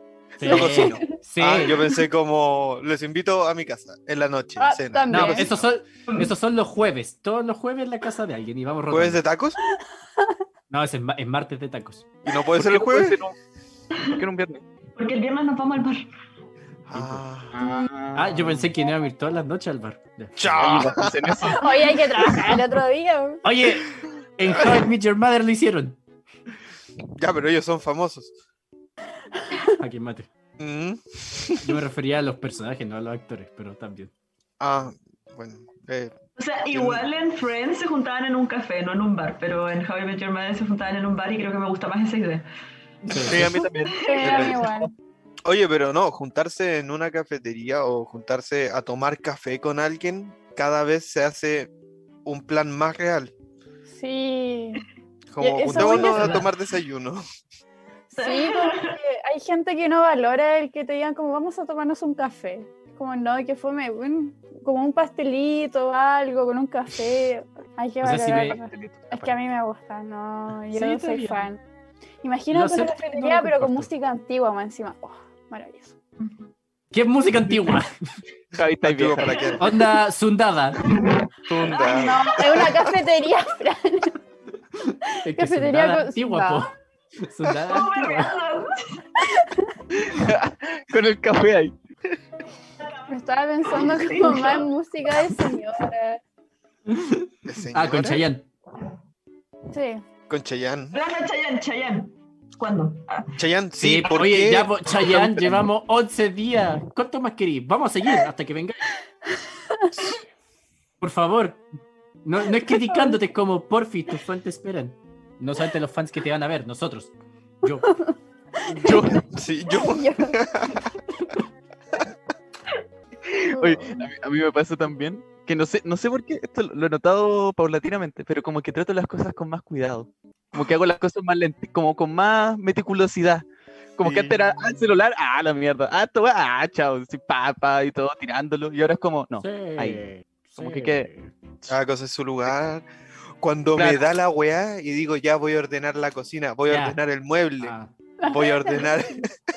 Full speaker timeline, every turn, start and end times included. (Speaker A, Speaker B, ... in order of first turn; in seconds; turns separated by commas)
Speaker A: 0.4-1.9, Speaker B: 0.4-5.6, Speaker C: 0.4-1.2, Speaker C: 4.6-5.5, Speaker A: 5.1-9.2, Speaker B: 8.9-9.6, Speaker C: 9.7-10.3, Speaker A: 10.7-12.1, Speaker B: 12.2-13.2, Speaker D: 12.5-13.4, Speaker E: 13.9-14.2, Speaker D: 14.1-14.6, Speaker E: 14.9-16.0, Speaker B: 16.9-17.6, Speaker A: 16.9-17.2, Speaker D: 17.5-18.7, Speaker C: 17.6-17.9, Speaker A: 18.1-21.0, Speaker B: 20.4-21.6, Speaker D: 20.6-21.7, Speaker C: 21.6-23.4, Speaker A: 22.2-22.6, Speaker A: 23.4-26.0, Speaker B: 27.2-28.3, Speaker C: 29.5-29.8, Speaker A: 29.8-30.3, Speaker B: 30.6-31.8, Speaker A: 31.6-34.1, Speaker B: 34.6-36.2, Speaker E: 36.4-42.5, Speaker B: 36.7-37.1, Speaker D: 43.1-44.7, Speaker A: 43.1-43.5, Speaker B: 43.2-44.6, Speaker E: 43.9-44.8, Speaker C: 44.0-44.9, Speaker B: 45.5-51.7, Speaker B: 52.2-53.3, Speaker C: 53.9-54.8, Speaker B: 55.3-57.2, Speaker C: 55.4-56.5, Speaker E: 55.7-56.5, Speaker C: 58.1-71.6, Speaker E: 58.2-59.0, Speaker A: 68.0-68.6, Speaker D: 68.5-69.3, Speaker A: 70.7-71.5, Speaker C: 72.2-76.0, Speaker A: 72.5-73.9, Speaker E: 76.2-76.5, Speaker A: 76.9-77.9, Speaker D: 78.6-79.6, Speaker B: 78.8-79.7, Speaker A: 79.6-81.2, Speaker E: 80.9-82.8, Speaker B: 81.5-82.7, Speaker C: 82.0-84.2, Speaker A: 85.1-88.3, Speaker C: 85.3-86.7, Speaker E: 87.6-89.0, Speaker C: 89.2-89.8, Speaker D: 89.9-91.7, Speaker E: 92.8-93.1, Speaker C: 93.1-96.2, Speaker E: 93.7-94.7, Speaker B: 97.5-98.2, Speaker A: 97.7-98.5, Speaker C: 99.7-100.0, Speaker B: 100.3-101.0, Speaker E: 100.9-103.3, Speaker B: 103.4-105.4, Speaker A: 103.8-108.9, Speaker C: 109.7-110.1, Speaker A: 111.0-111.6, Speaker A: 112.2-118.1, Speaker C: 112.7-113.2, Speaker C: 117.7-119.0, Speaker D: 118.8-119.2, Speaker B: 119.3-120.9, Speaker C: 119.7-120.4, Speaker D: 123.3-133.4, Speaker C: 123.5-124.1, Speaker D: 134.0-140.0, Speaker B: 134.0-134.5, Speaker A: 139.4-141.3, Speaker D: 140.6-141.1, Speaker B: 141.7-142.9, Speaker B: 143.4-147.7, Speaker D: 143.8-144.1, Speaker A: 146.7-147.0, Speaker A: 147.6-147.9, Speaker C: 148.2-148.8, Speaker B: 148.3-149.3